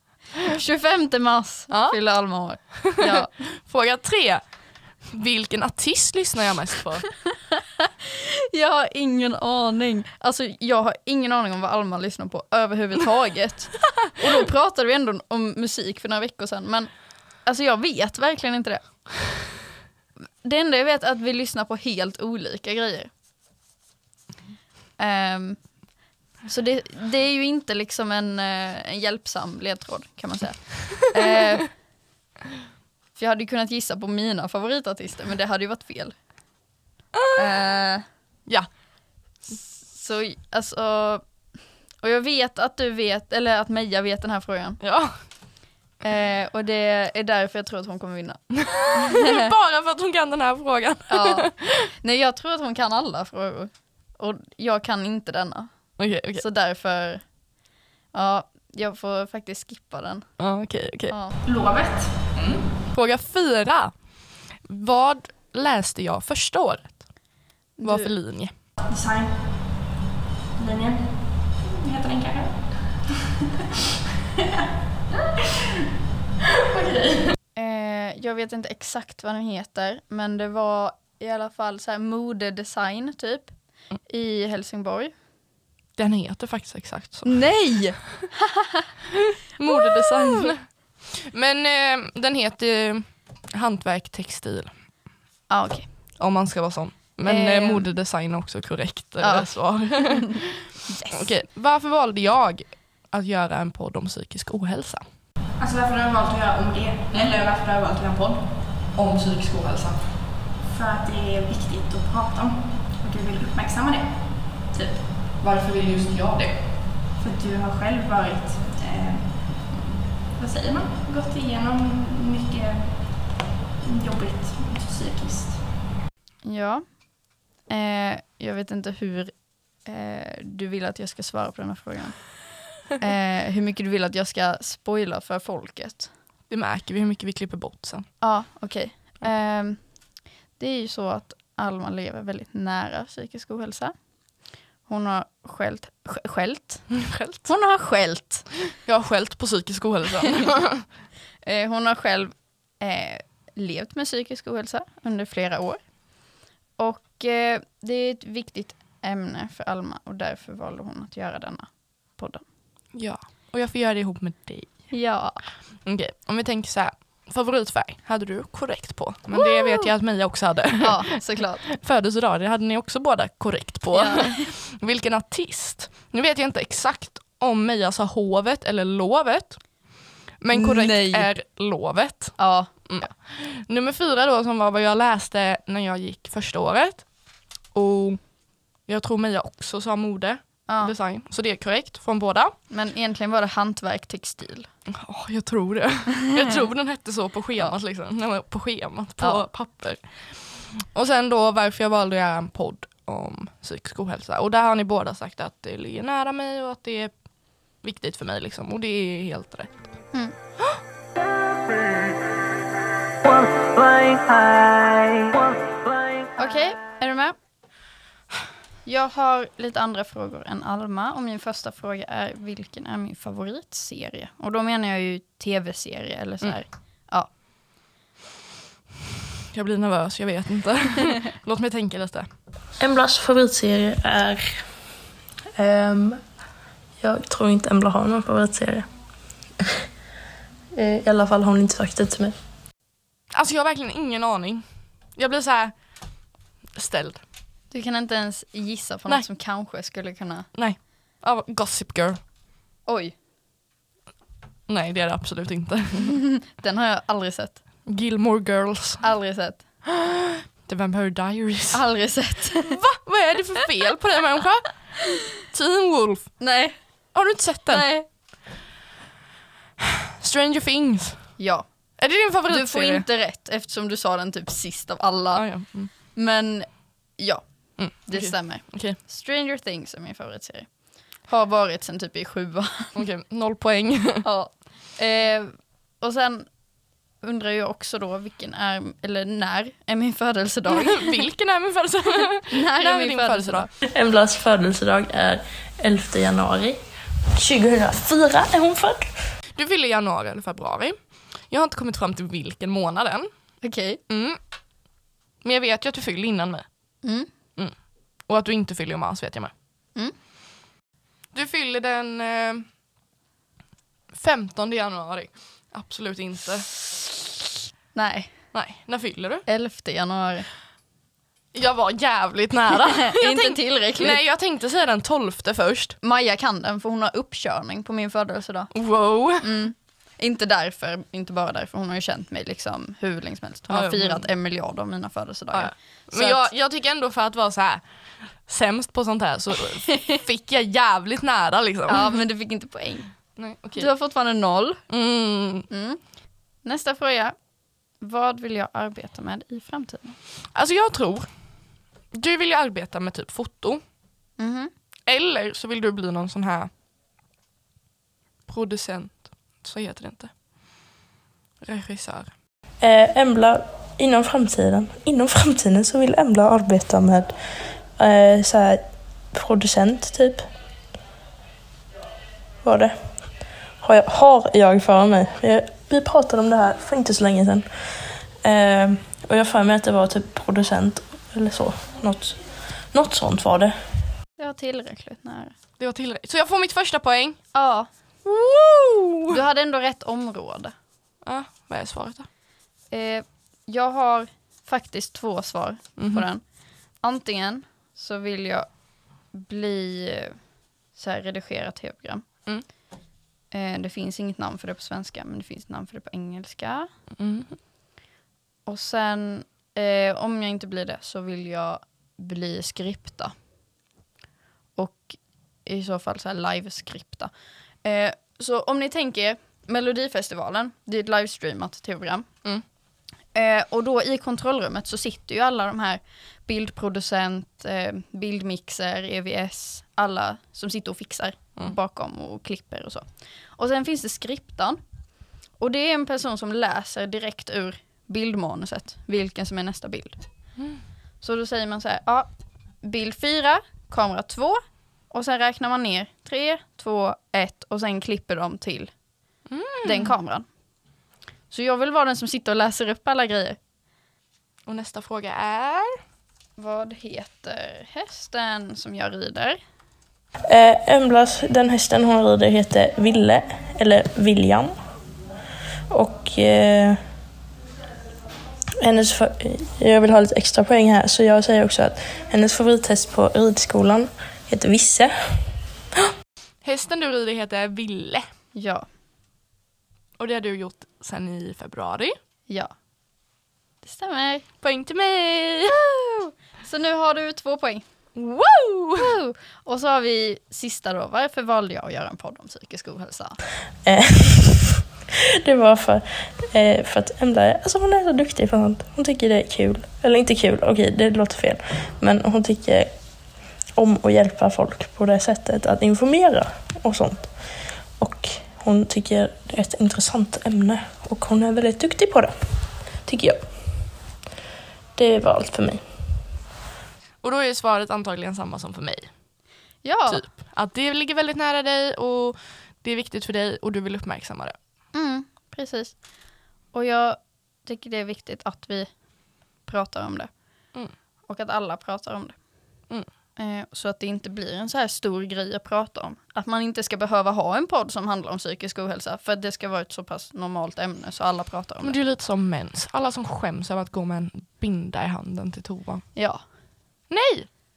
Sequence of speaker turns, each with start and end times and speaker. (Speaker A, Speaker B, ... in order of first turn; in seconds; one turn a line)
Speaker A: 0.4-3.3
Speaker B: 1.7-2.0
Speaker B: 2.8-4.4
Speaker B: 5.0-7.2
Speaker A: 7.8-16.9
Speaker A: 17.4-19.2
Speaker A: 20.4-23.1
Speaker A: 25.0-25.8
Speaker A: 26.4-31.8
Speaker A: 33.1-36.2
Speaker B: 37.1-37.5
Speaker A: 37.3-38.0
Speaker A: 39.5-41.2
Speaker A: 42.0-44.8
Speaker B: 44.8-45.1
Speaker A: 46.0-49.5
Speaker B: 48.6-51.8
Speaker A: 51.1-57.2
Speaker B: 56.0-56.4
Speaker A: 58.1-60.3
Speaker B: 60.4-61.1
Speaker A: 61.1-61.4
Speaker C: 61.4-62.4
Speaker B: 62.4-67.1
Speaker A: 67.8-68.1
Speaker B: 67.8-68.5
Speaker C: 68.8-69.8
Speaker C: 70.5-73.1
Speaker C: 76.7-77.3
Speaker A: 77.5-85.1
Speaker B: 86.0-87.8
Speaker A: 87.2-88.8
Speaker B: 89.5-94.7
Speaker A: 89.7-90.5
Speaker A: 95.5-95.9
Speaker B: 96.2-105.0
Speaker A: 97.2-97.9
Speaker A: 99.2-100.3
Speaker A: 100.9-101.3
Speaker C: 105.6-108.5
Speaker B: 108.9-110.0
Speaker C: 110.6-115.1
Speaker B: 115.4-116.6
Speaker C: 117.2-119.8
Speaker C: 120.3-125.8
Speaker A: 126.4-127.0
Speaker A: 127.6-136.1
Speaker B: 136.5-138.1
Speaker A: 138.2-140.0
Speaker A: 140.6-143.9
Speaker A: 144.8-148.5
Speaker B: 147.0-147.5
Speaker B: 148.8-150.8
Speaker A: 151.4-155.8
Speaker A: 156.8-162.4
Speaker B: 162.9-164.9
Speaker A: 164.9-165.4
Speaker B: 165.8-179.7
Speaker A: 169.3-169.9
Speaker A: 170.8-171.6
Speaker A: 173.9-174.5
Speaker B: 180.4-187.1
Speaker A: 180.5-181.3
Speaker A: 182.4-183.1
Speaker B: 187.7-188.3
Speaker B: 188.8-192.5
Speaker A: 190.7-190.9
Speaker A: 192.7-194.7
Speaker B: 194.9-207.1
Speaker B: 207.8-209.7
Speaker A: 216.4-217.3
Speaker A: 218.8-227.3
Speaker B: 229.5-232.3
Speaker D: 232.8-234.7
Speaker D: 235.6-236.2
Speaker D: 237.0-238.9
Speaker D: 240.7-242.3
Speaker B: 243.3-244.6
Speaker B: 245.2-245.7
Speaker B: 246.7-247.2
Speaker A: 247.7-250.5
Speaker B: 250.5-252.2
Speaker A: 252.8-253.1
Speaker B: 254.7-256.2
Speaker A: 256.1-257.6
Speaker B: 257.9-259.0
Speaker A: 259.0-259.6
Speaker B: 260.0-261.9
Speaker A: 261.7-262.8
Speaker B: 262.5-266.4
Speaker A: 266.4-266.8
Speaker B: 267.1-267.9
Speaker A: 267.7-268.1
Speaker B: 270.2-271.4
Speaker A: 271.4-271.7
Speaker B: 272.0-273.1
Speaker A: 272.5-283.0
Speaker B: 275.3-275.9
Speaker B: 277.8-279.0
Speaker B: 282.9-284.2
Speaker A: 284.2-286.6
Speaker A: 287.2-291.1
Speaker B: 290.7-293.7
Speaker A: 292.5-293.7
Speaker D: 293.8-299.2
Speaker B: 299.5-303.3
Speaker A: 303.6-304.0
Speaker B: 304.1-304.4
Speaker B: 305.4-306.6
Speaker A: 307.0-307.3
Speaker B: 308.2-309.5
Speaker B: 311.3-312.6
Speaker B: 314.1-316.8
Speaker A: 317.9-318.4
Speaker B: 318.5-319.4
Speaker A: 319.5-320.5
Speaker B: 321.5-326.0
Speaker A: 323.0-324.2
Speaker A: 326.0-328.7
Speaker B: 328.7-329.5
Speaker A: 329.4-336.5
Speaker B: 333.7-334.3
Speaker B: 335.5-337.8
Speaker B: 338.4-342.1
Speaker A: 339.9-340.2
Speaker A: 341.9-343.1
Speaker B: 343.4-343.9
Speaker A: 343.7-344.8
Speaker B: 344.9-345.7
Speaker A: 345.7-346.0
Speaker A: 346.6-347.3
Speaker A: 348.0-350.2
Speaker B: 350.5-351.3
Speaker B: 352.1-353.8
Speaker A: 354.4-354.7
Speaker B: 355.1-356.7
Speaker B: 358.5-360.3
Speaker B: 361.6-362.3
Speaker D: 362.8-367.4
Speaker D: 367.9-370.5
Speaker D: 372.6-372.9
Speaker D: 373.8-383.8
Speaker A: 384.4-385.5
Speaker B: 385.8-387.4
Speaker A: 387.5-387.9
Speaker B: 388.2-389.4
Speaker A: 389.3-390.7
Speaker B: 391.2-392.3
Speaker A: 392.9-396.4
Speaker B: 396.0-396.2
Speaker A: 397.0-398.7
Speaker A: 399.3-400.4
Speaker A: 400.9-402.2
Speaker A: 403.5-406.9
Speaker B: 407.2-407.6
Speaker A: 408.6-413.3
Speaker A: 414.8-417.3
Speaker A: 417.8-422.3
Speaker A: 423.3-434.8
Speaker A: 435.6-440.2
Speaker A: 441.2-442.3
Speaker A: 442.8-448.9
Speaker B: 449.5-450.1
Speaker A: 449.8-450.5
Speaker A: 451.5-453.6
Speaker B: 454.6-456.0
Speaker A: 456.6-459.6
Speaker D: 460.5-464.7
Speaker D: 465.9-467.0
Speaker D: 468.8-475.5
Speaker B: 476.6-478.3
Speaker A: 478.5-478.9
Speaker B: 480.2-482.1
Speaker A: 483.8-484.4
Speaker B: 484.6-485.8
Speaker A: 485.7-487.8
Speaker B: 488.1-489.1
Speaker A: 489.0-493.4
Speaker D: 493.8-502.9
Speaker D: 503.7-507.3
Speaker D: 508.0-512.3
Speaker D: 513.0-513.5
Speaker D: 514.9-515.8
Speaker B: 517.2-519.1
Speaker A: 519.8-520.2
Speaker B: 520.1-524.5
Speaker A: 524.9-526.0
Speaker A: 526.7-528.9
Speaker A: 529.6-530.3
Speaker A: 531.3-532.4
Speaker A: 533.4-542.0
Speaker B: 541.8-546.1
Speaker A: 546.1-546.4
Speaker B: 547.1-547.5